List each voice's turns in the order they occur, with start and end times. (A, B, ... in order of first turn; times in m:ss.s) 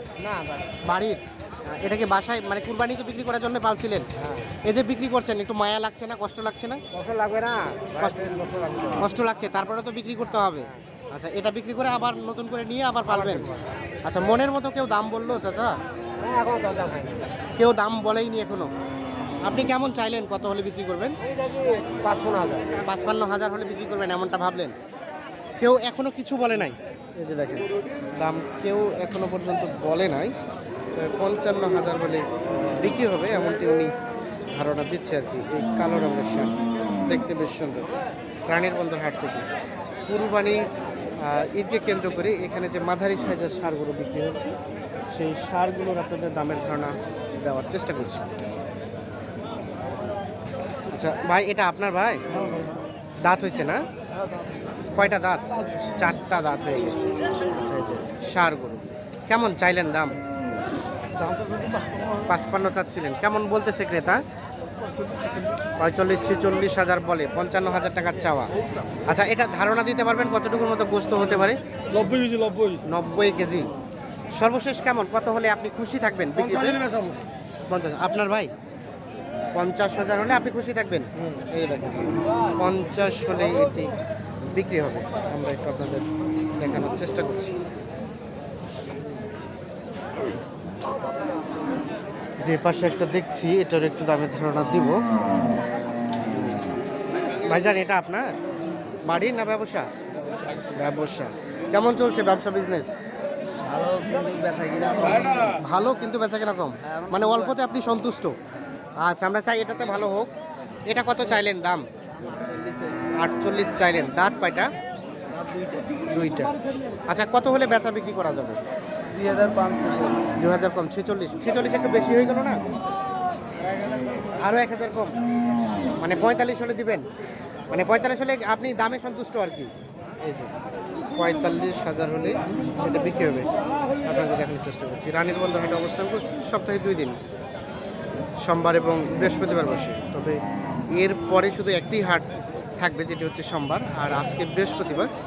0:00.2-0:00.8 A
0:00.8-0:04.1 B
0:04.2-0:04.5 A
0:04.6-0:06.8 B
0:06.9-0:09.1 A
0:08.9-0:13.5 B
0:13.2-0:13.7 A
0:14.0-0:15.8 B
0:16.2-0:17.3 A
0:17.6-0:18.7 B
0:19.4-0:21.2 B
0:21.2-0:22.8 A
0:22.8-0:24.7 B
0:25.6-0:27.7 B
0:28.2-0:30.3 B
0:31.0-0:33.9 B
0:34.5-0:37.9 B
0:38.5-0:39.5 B
0:40.1-0:40.6 B
0:41.2-0:44.6 B
0:45.1-0:48.3 B
0:50.9-0:52.2 B
0:52.3-0:52.7 A
0:53.2-0:53.8 B
0:54.1-0:54.9 A
0:54.9-1:00.2 B
1:01.1-1:02.3 A
1:02.3-1:04.2 B
1:04.8-1:05.7 A
1:05.8-1:08.5 B
1:09.1-1:11.6 B
1:11.9-1:12.8 A
1:12.8-1:13.7 B
1:14.3-1:16.8 B
1:17.7-1:18.5 B
1:19.5-1:24.0 B
1:24.5-1:26.1 B
1:26.6-1:27.5 B
1:32.4-1:35.0 B
1:37.4-1:38.3 B
1:39.1-1:39.9 B
1:40.7-1:42.9 B
1:43.7-1:45.6 A
1:45.6-1:48.4 B
1:46.9-1:47.6 A
1:49.0-1:50.3 B
1:50.9-1:51.8 B
1:52.3-1:52.9 A
1:53.2-1:54.7 B
1:55.3-1:55.9 A
1:56.1-1:56.5 B
1:57.1-1:58.6 B
1:59.1-2:00.3 A
2:00.4-2:02.6 B
2:04.4-2:05.1 B
2:06.0-2:07.0 B
2:07.7-2:09.7 B
2:10.2-2:10.5 B
2:11.2-2:13.5 B
2:14.0-2:17.2 B
2:18.4-2:20.4 B
2:21.0-2:22.3 B
2:22.8-2:25.1 B